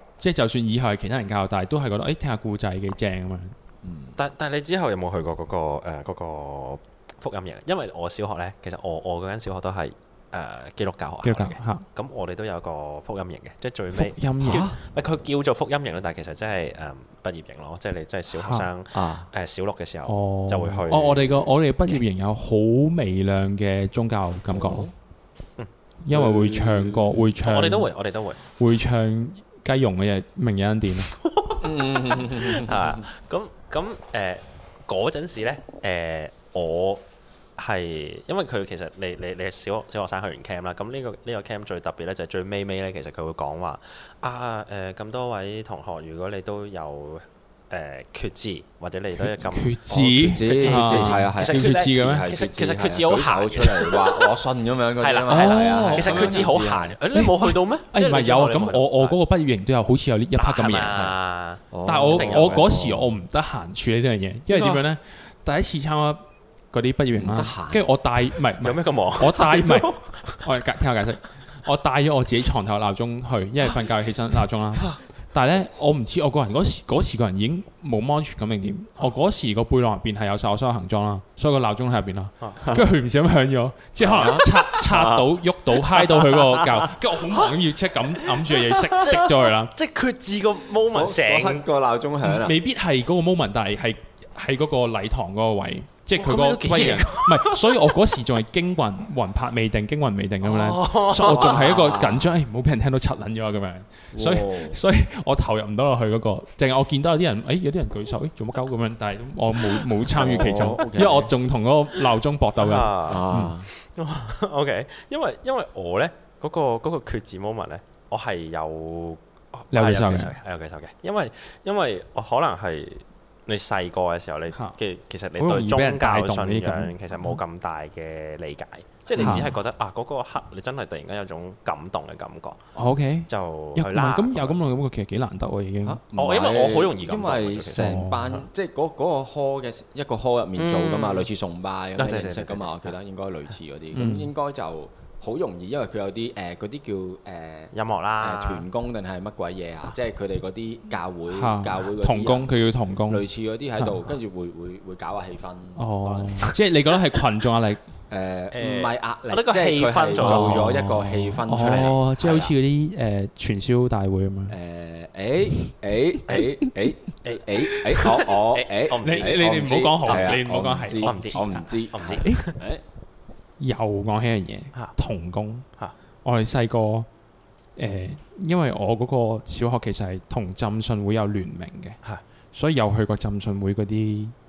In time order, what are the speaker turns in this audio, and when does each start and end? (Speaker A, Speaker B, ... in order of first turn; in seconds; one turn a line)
Speaker A: 0.2-3.5
Speaker B: 3.8-4.2
Speaker C: 4.2-21.5
Speaker A: 11.2-11.8
Speaker A: 13.9-14.7
Speaker B: 14.4-14.7
Speaker A: 18.3-18.7
Speaker B: 18.9-19.3
Speaker A: 20.1-24.9
Speaker B: 24.5-24.9
Speaker A: 26.0-27.9
Speaker B: 26.1-27.1
Speaker C: 27.4-28.4
Speaker A: 28.5-31.1
Speaker C: 31.1-37.0
Speaker B: 31.6-33.0
Speaker C: 37.5-54.4
Speaker A: 49.2-52.3
Speaker B: 49.9-57.0
Speaker C: 55.0-59.2
Speaker A: 55.3-56.5
Speaker A: 57.1-61.1
Speaker C: 60.3-62.6
Speaker B: 61.7-63.1
Speaker A: 61.8-89.7
Speaker C: 64.5-64.8
Speaker B: 67.1-67.8
Speaker C: 68.6-70.4
Speaker C: 84.0-84.3
Speaker B: 84.0-86.7
Speaker C: 89.0-91.6
Speaker B: 90.9-92.6
Speaker A: 92.2-113.5
Speaker C: 96.1-98.0
Speaker C: 100.4-102.0
Speaker B: 101.2-102.3
Speaker B: 104.1-104.8
Speaker C: 110.2-110.8
Speaker B: 110.2-111.3
Speaker C: 112.6-132.6
Speaker B: 113.0-113.7
Speaker A: 119.7-120.3
Speaker A: 125.4-127.3
Speaker B: 129.2-129.5
Speaker A: 129.2-129.5
Speaker A: 132.7-136.0
Speaker C: 133.3-134.6
Speaker B: 135.8-156.5
Speaker C: 136.1-138.4
Speaker A: 137.7-138.4
Speaker C: 140.6-141.3
Speaker C: 141.9-142.9
Speaker A: 143.9-144.3
Speaker C: 147.7-148.7
Speaker A: 151.3-153.2
Speaker A: 155.8-157.8
Speaker B: 158.1-162.5
Speaker C: 158.5-160.7
Speaker A: 160.2-164.5
Speaker C: 161.6-162.0
Speaker B: 164.5-172.8
Speaker C: 167.2-170.4
Speaker A: 167.7-168.1
Speaker A: 169.0-171.7
Speaker C: 171.0-172.6
Speaker A: 172.2-172.5
Speaker A: 173.6-175.7
Speaker A: 176.2-177.1
Speaker A: 177.8-182.0
Speaker A: 182.5-184.3